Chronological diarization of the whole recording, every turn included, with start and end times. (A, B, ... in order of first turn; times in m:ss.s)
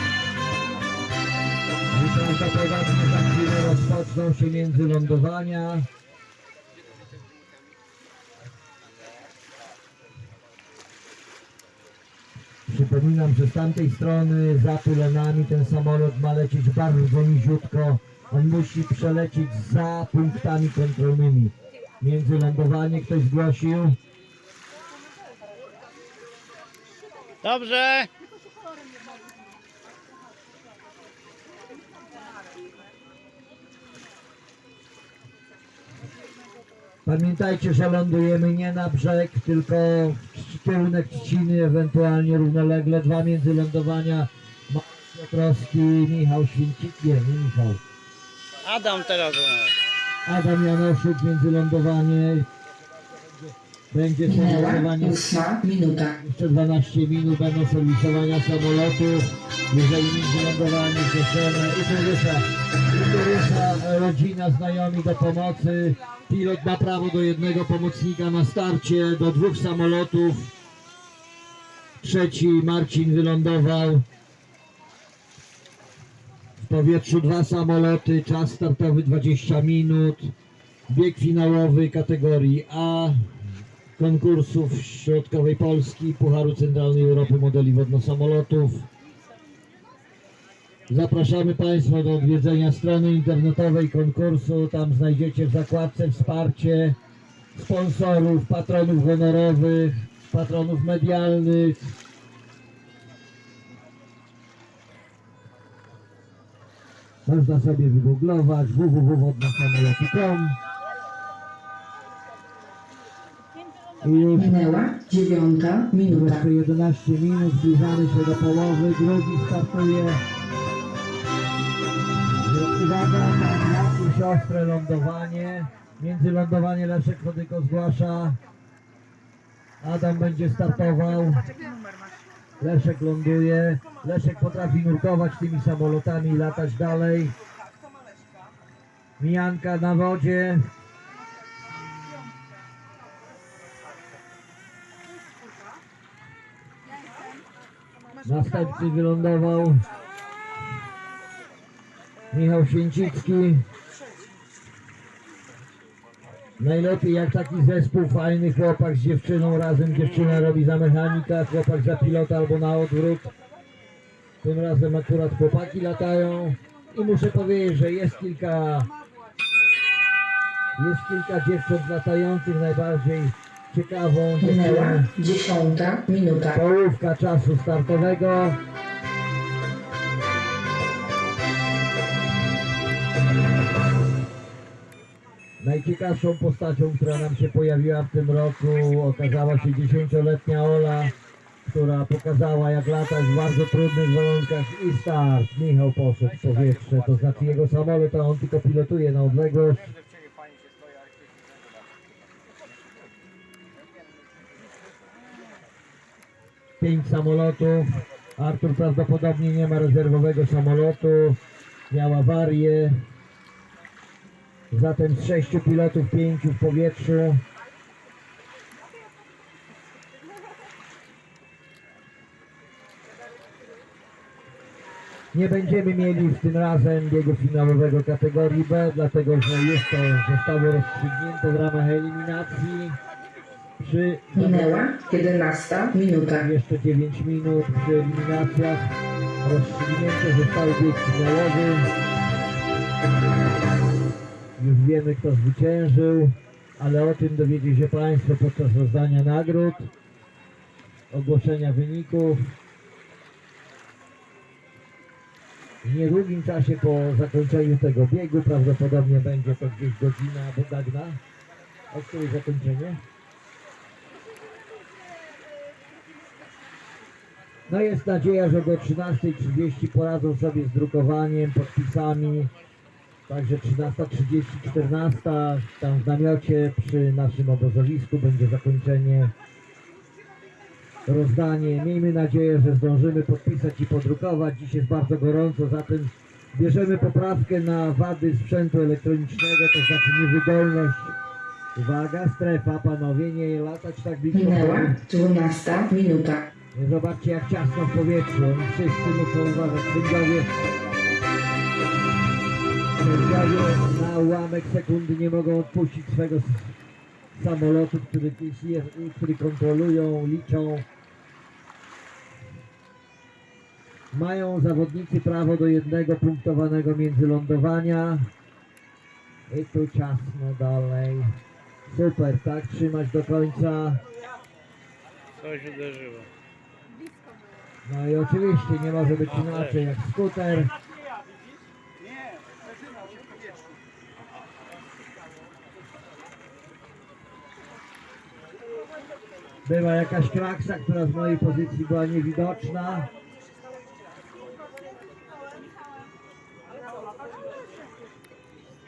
0:01.9-0:05.9 A
0:12.7-0:24.0 A
0:27.4-0:28.1 B
0:37.0-0:47.8 A
0:48.6-0:49.8 B
0:50.2-0:52.5 A
0:53.9-0:55.2 A
0:54.2-0:56.2 C
0:56.2-1:10.5 A
1:12.0-1:14.0 A
1:16.6-1:20.3 A
1:20.9-1:23.4 A
1:24.0-1:28.9 A
1:30.9-1:37.0 A
1:37.5-1:42.0 A
1:47.2-1:50.6 A
1:54.0-1:54.6 A
1:54.4-1:56.4 C
1:56.0-2:00.2 A
2:02.4-2:08.4 A
2:09.8-2:11.5 A
2:12.6-2:17.4 A
2:19.2-2:20.7 A
2:28.2-2:29.9 A
2:32.3-2:33.7 A
2:36.6-2:43.3 A
2:44.4-2:48.9 A
2:50.8-2:55.1 A
2:54.4-2:56.6 C
2:56.5-2:58.6 A
3:05.6-3:11.1 A
3:11.6-3:19.9 A
3:26.8-3:31.4 A
3:31.9-3:33.0 A
3:34.7-3:37.4 A
3:45.3-3:53.0 A
3:53.8-3:54.7 A
3:54.3-3:56.5 C
3:56.4-4:01.9 A
4:04.6-4:09.9 A
4:11.1-4:12.5 A
4:15.8-4:21.2 A
4:21.9-4:23.0 A
4:27.7-4:32.5 A
4:33.3-4:39.3 A
4:41.0-4:51.2 A
4:51.8-4:55.0 A
4:54.3-4:56.5 C
4:56.7-5:00.5 A
5:03.0-5:06.8 A
5:07.3-5:10.8 A
5:14.1-5:18.3 A
5:19.5-5:24.0 A
5:25.4-5:26.3 B
5:27.8-5:30.7 A
5:39.6-5:43.1 A